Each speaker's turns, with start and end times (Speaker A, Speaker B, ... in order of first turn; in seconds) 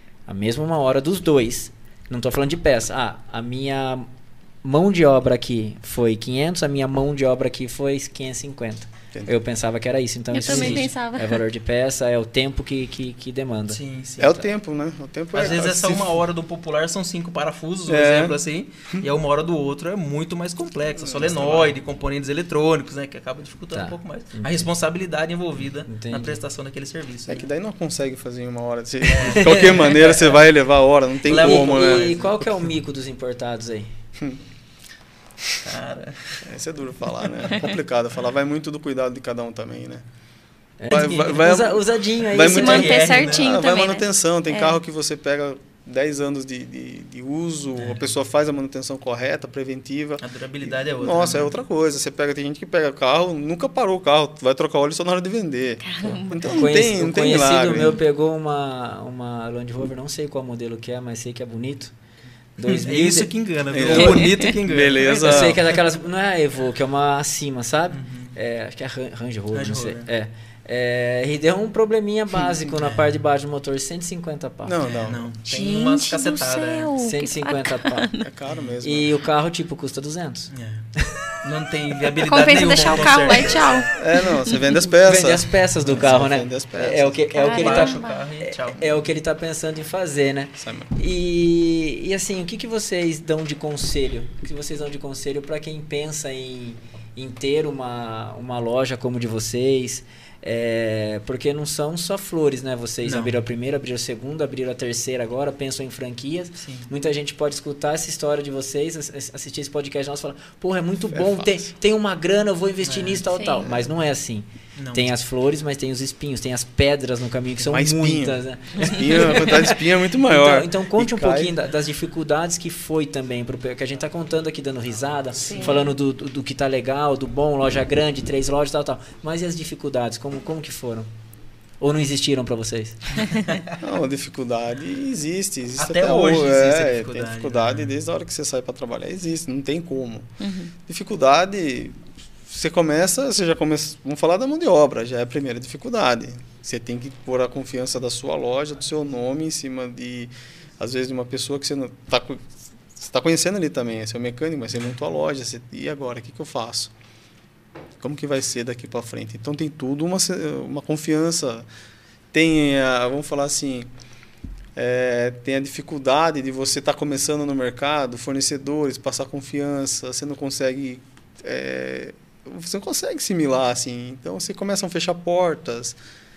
Speaker A: 0.3-4.1, 4.6-13.8, 23.7-24.7, 25.9-26.4, 29.3-29.7, 31.3-33.9, 40.8-43.1, 56.5-61.9, 62.6-63.3, 63.9-64.1, 65.1-74.8, 77.0-78.1, 78.8-81.1, 85.0-131.1, 131.8-133.2
Speaker B: 10.3-11.4, 42.4-44.8, 55.8-56.6, 75.5-78.3, 82.2-84.7, 87.3-88.2, 113.3-113.7, 125.5-125.9, 140.4-140.7
Speaker C: 10.5-10.9, 13.7-14.4, 15.3-27.4, 29.0-30.4, 31.2-32.5, 35.6-36.4, 42.5-43.5, 47.8-48.0, 50.2-51.6, 62.6-65.8, 67.9-68.3, 69.5-70.1, 74.8-76.9, 78.5-78.7, 80.5-80.9, 81.4-83.9, 87.5-88.8, 103.0-103.4, 106.6-106.9, 112.8-113.2, 114.8-115.1, 135.8-137.9
Speaker D: 14.2-16.2, 17.9-18.4, 21.0-21.8, 27.3-32.2, 36.4-40.0, 40.9-58.0, 63.7-65.6, 74.7-75.3, 78.2-79.1, 84.0-87.2, 90.6-90.9, 111.1-111.7, 113.6-113.8, 117.6-121.5, 133.8-140.3, 140.9-156.9, 158.0-161.7, 162.3-163.9, 164.8-176.0